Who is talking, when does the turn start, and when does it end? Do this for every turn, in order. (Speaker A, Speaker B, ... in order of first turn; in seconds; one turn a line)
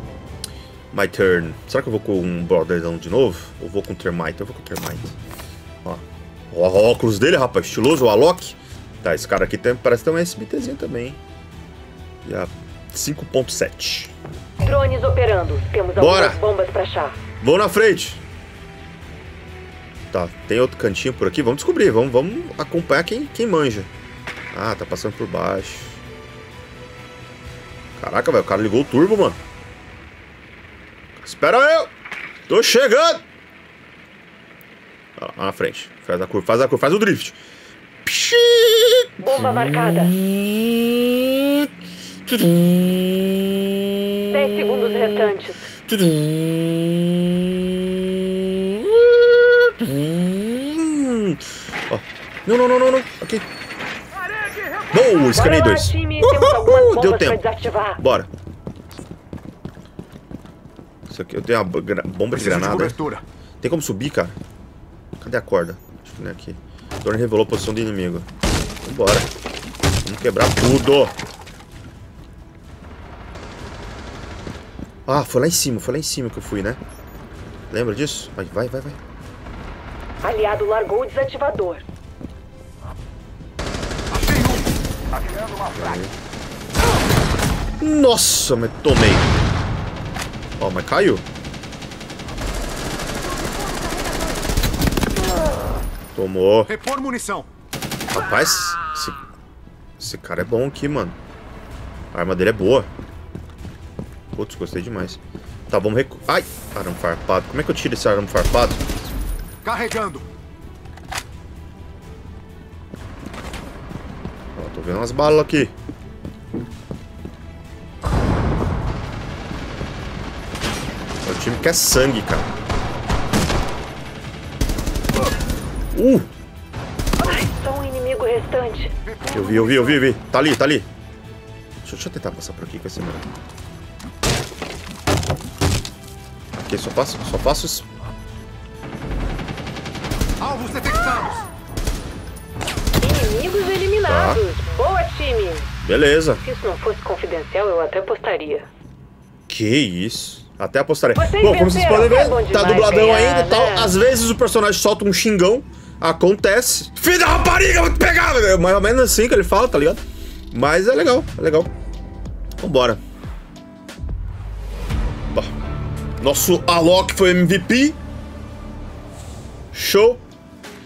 Speaker A: 0.9-5.2
Speaker A: 5.8-11.2
Speaker A: 12.2-14.1
Speaker B: 14.6-17.2
Speaker A: 15.9-16.4
Speaker A: 17.4-18.2
Speaker A: 20.1-23.9
Speaker A: 24.5-26.0
Speaker A: 28.0-29.4
Speaker A: 31.2-31.9
Speaker A: 32.5-33.2
Speaker A: 35.2-37.4
Speaker A: 38.0-41.7
Speaker B: 39.2-40.1
Speaker A: 42.3-53.5
Speaker B: 44.3-45.7
Speaker A: 54.9-57.4
Speaker B: 55.3-58.0
Speaker A: 58.0-58.3
Speaker A: 61.1-63.0
Speaker C: 62.3-63.2
Speaker A: 63.6-64.4
Speaker A: 65.2-68.3
Speaker A: 68.8-69.3
Speaker A: 70.0-71.1
Speaker A: 75.1-76.8
Speaker A: 77.7-79.0
Speaker B: 80.2-81.8
Speaker C: 84.1-84.6
Speaker A: 85.7-86.1
Speaker A: 87.8-89.3
Speaker A: 90.6-91.2
Speaker A: 96.1-96.7
Speaker C: 96.7-97.5
Speaker A: 98.1-99.2
Speaker A: 100.0-101.2
Speaker A: 102.1-102.9
Speaker A: 104.3-108.8
Speaker C: 109.6-110.2
Speaker A: 114.5-115.7
Speaker A: 121.2-122.5
Speaker A: 125.9-126.3
Speaker B: 127.2-128.9
Speaker C: 129.1-129.9
Speaker A: 129.3-130.9
Speaker A: 131.8-133.3
Speaker A: 136.6-137.8
Speaker C: 140.4-141.4
Speaker B: 143.0-145.7
Speaker A: 144.1-144.4
Speaker A: 145.8-146.4
Speaker B: 146.4-148.7
Speaker A: 149.5-160.0
Speaker B: 151.1-153.9
Speaker A: 160.5-161.7
Speaker A: 162.6-163.0
Speaker A: 166.2-168.0
Speaker A: 169.7-170.2